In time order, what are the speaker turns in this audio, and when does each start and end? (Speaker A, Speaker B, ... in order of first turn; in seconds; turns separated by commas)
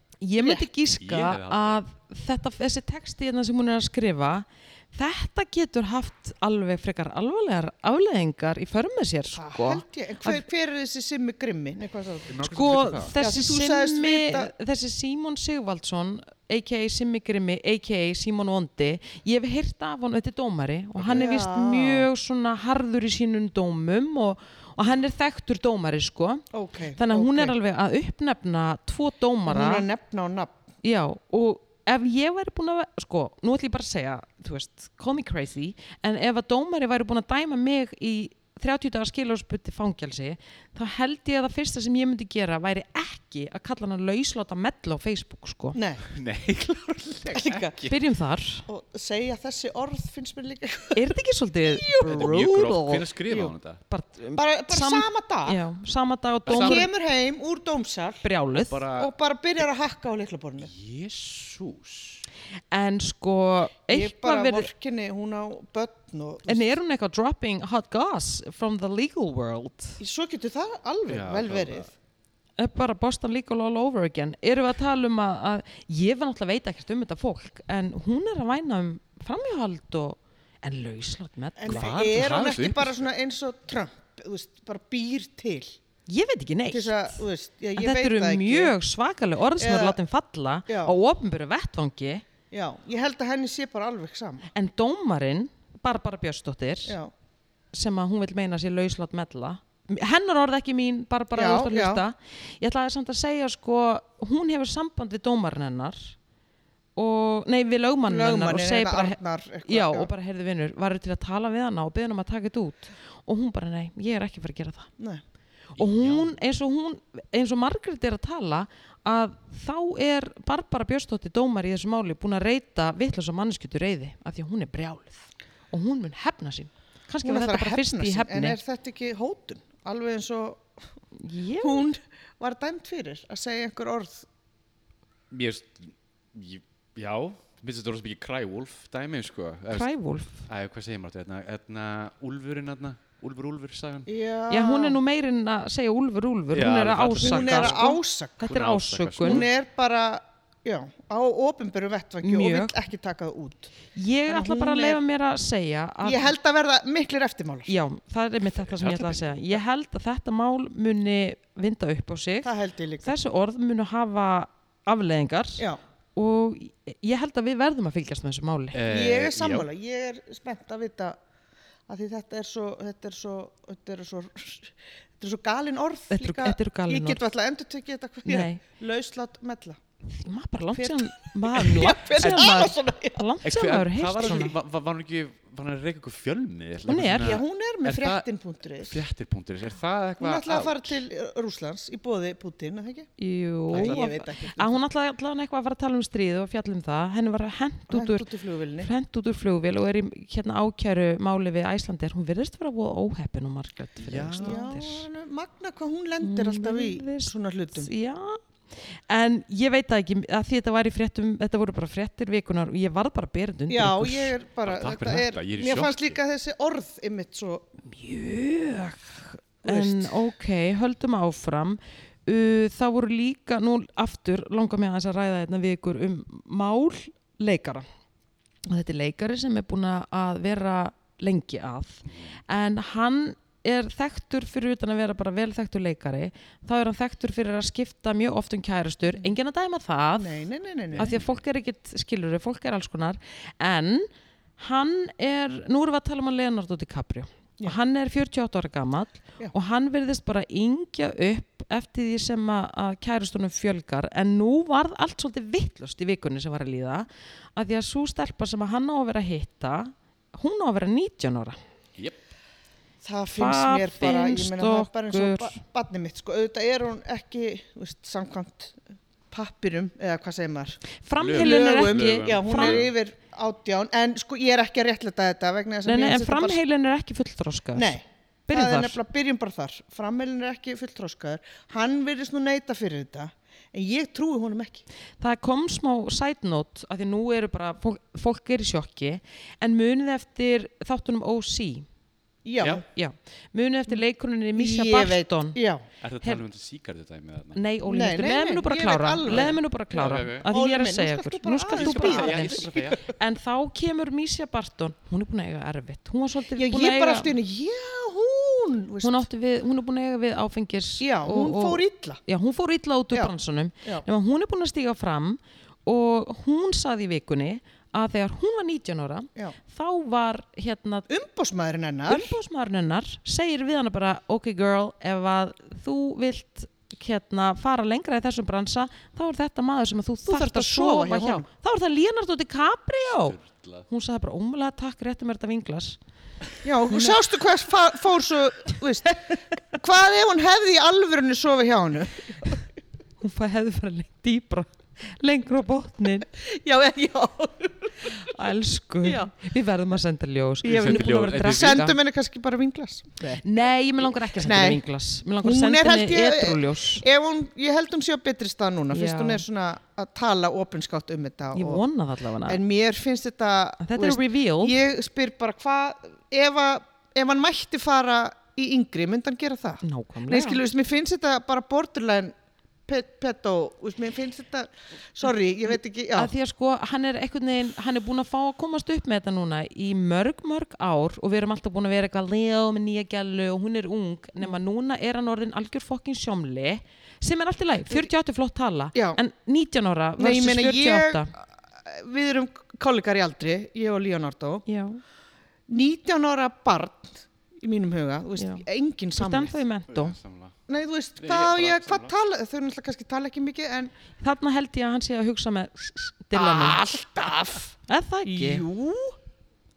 Speaker A: 0.2-10.4, Speaker B: 0.4-0.6, Speaker C: 1.0-1.8, Speaker B: 9.3-12.4, Speaker C: 12.3-13.2, Speaker A: 12.4-26.4, Speaker B: 13.1-14.5, Speaker C: 21.0-21.2, Speaker B: 21.1-22.1, Speaker B: 26.5-27.6, Speaker A: 27.0-29.9, Speaker B: 29.5-30.5, Speaker A: 30.8-45.8, Speaker B: 45.7-46.1, Speaker C: 46.1-48.0, Speaker B: 47.3-47.8, Speaker A: 47.9-48.6, Speaker B: 48.7-51.0, Speaker A: 50.9-53.0, Speaker B: 51.7-52.3, Speaker C: 52.0-53.8, Speaker A: 53.9-56.9, Speaker B: 54.4-55.6, Speaker C: 56.5-56.8, Speaker B: 56.5-58.2, Speaker A: 58.2-58.8, Speaker C: 58.5-59.1, Speaker B: 59.0-60.7, Speaker C: 60.6-62.2, Speaker A: 62.7-64.7, Speaker B: 63.9-66.8, Speaker A: 66.5-70.0, Speaker B: 70.0-71.9, Speaker C: 71.1-71.9, Speaker A: 72.6-81.9, Speaker B: 81.6-85.8, Speaker C: 81.7-83.0, Speaker A: 86.1-87.2, Speaker B: 86.7-88.7, Speaker A: 87.8-92.2, Speaker B: 89.6-90.0, Speaker B: 90.7-90.9, Speaker B: 92.5-94.5, Speaker A: 94.5-97.0, Speaker A: 97.7-106.1, Speaker B: 101.3-102.0, Speaker A: 107.0-114.9, Speaker B: 108.1-110.1, Speaker A: 115.8-128.6, Speaker C: 115.8-116.3, Speaker B: 127.2-130.7, Speaker A: 131.2-131.8, Speaker B: 131.6-134.2, Speaker C: 135.3-139.9, Speaker A: 139.7-140.5, Speaker C: 140.4-144.1, Speaker B: 144.1-145.0, Speaker A: 144.5-149.4, Speaker C: 146.5-147.8, Speaker B: 147.2-148.5, Speaker C: 148.4-149.5, Speaker B: 149.2-153.7, Speaker A: 152.2-152.8, Speaker A: 153.9-156.3, Speaker B: 154.3-155.0, Speaker B: 156.0-157.7, Speaker A: 157.7-162.5, Speaker C: 158.5-159.4, Speaker B: 162.4-163.2, Speaker A: 163.0-165.6, Speaker A: 166.2-168.8, Speaker C: 168.7-169.7, Speaker B: 168.8-171.2, Speaker B: 171.9-179.8, Speaker A: 176.1-177.2, Speaker A: 178.2-178.6, Speaker A: 180.1-184.5, Speaker B: 180.7-183.2, Speaker C: 182.2-182.5, Speaker C: 183.4-188.2, Speaker A: 186.9-187.3, Speaker B: 187.2-189.0, Speaker C: 188.8-191.0, Speaker B: 190.2-193.1, Speaker A: 193.2-198.2, Speaker C: 193.7-194.0, Speaker B: 193.7-194.8, Speaker B: 197.9-198.9, Speaker A: 198.8-205.1, Speaker C: 204.0-204.6, Speaker B: 204.4-207.9, Speaker A: 206.2-208.4, Speaker A: 208.9-214.3, Speaker B: 213.7-217.7, Speaker C: 214.6-216.2, Speaker A: 217.8-227.8, Speaker B: 219.6-220.2, Speaker A: 228.7-240.4, Speaker B: 240.2-241.1, Speaker C: 240.9-241.3, Speaker A: 240.9-261.6, Speaker B: 263.0-268.8, Speaker A: 263.4-265.6, Speaker B: 269.3-270.8, Speaker A: 271.0-272.8, Speaker C: 271.2-272.9, Speaker B: 271.3-276.6, Speaker A: 275.8-278.0, Speaker B: 277.7-284.8, Speaker A: 278.5-279.0, Speaker A: 285.2-291.9, Speaker B: 292.4-292.8, Speaker A: 292.9-295.6, Speaker B: 294.6-295.8, Speaker C: 296.0-297.6, Speaker A: 297.5-307.3, Speaker B: 297.9-303.0, Speaker C: 299.3-300.5, Speaker C: 301.8-303.0, Speaker B: 306.5-309.3, Speaker A: 309.0-321.1, Speaker B: 311.0-312.2, Speaker B: 313.1-314.1, Speaker B: 321.1-322.4, Speaker A: 322.1-336.0, Speaker B: 330.3-331.4, Speaker C: 333.1-333.8, Speaker B: 336.6-342.6, Speaker A: 336.9-337.2, Speaker A: 343.2-346.3, Speaker B: 346.3-348.3, Speaker A: 348.1-352.0, Speaker B: 349.0-349.3, Speaker B: 350.6-354.8, Speaker C: 350.7-351.9, Speaker A: 353.4-357.0, Speaker B: 355.4-361.8, Speaker A: 358.9-359.4, Speaker A: 361.5-362.6, Speaker B: 362.5-372.3, Speaker A: 363.8-364.7, Speaker A: 369.8-370.6, Speaker B: 372.9-376.3, Speaker A: 376.1-391.3, Speaker B: 388.9-389.2, Speaker B: 390.2-394.6, Speaker A: 394.7-395.0, Speaker B: 395.7-399.6, Speaker A: 398.4-398.6, Speaker A: 399.1-400.2, Speaker C: 399.9-400.6, Speaker B: 400.7-403.9, Speaker C: 401.2-402.1, Speaker A: 404.2-406.8, Speaker B: 406.3-407.7, Speaker A: 407.9-408.6, Speaker B: 408.2-409.1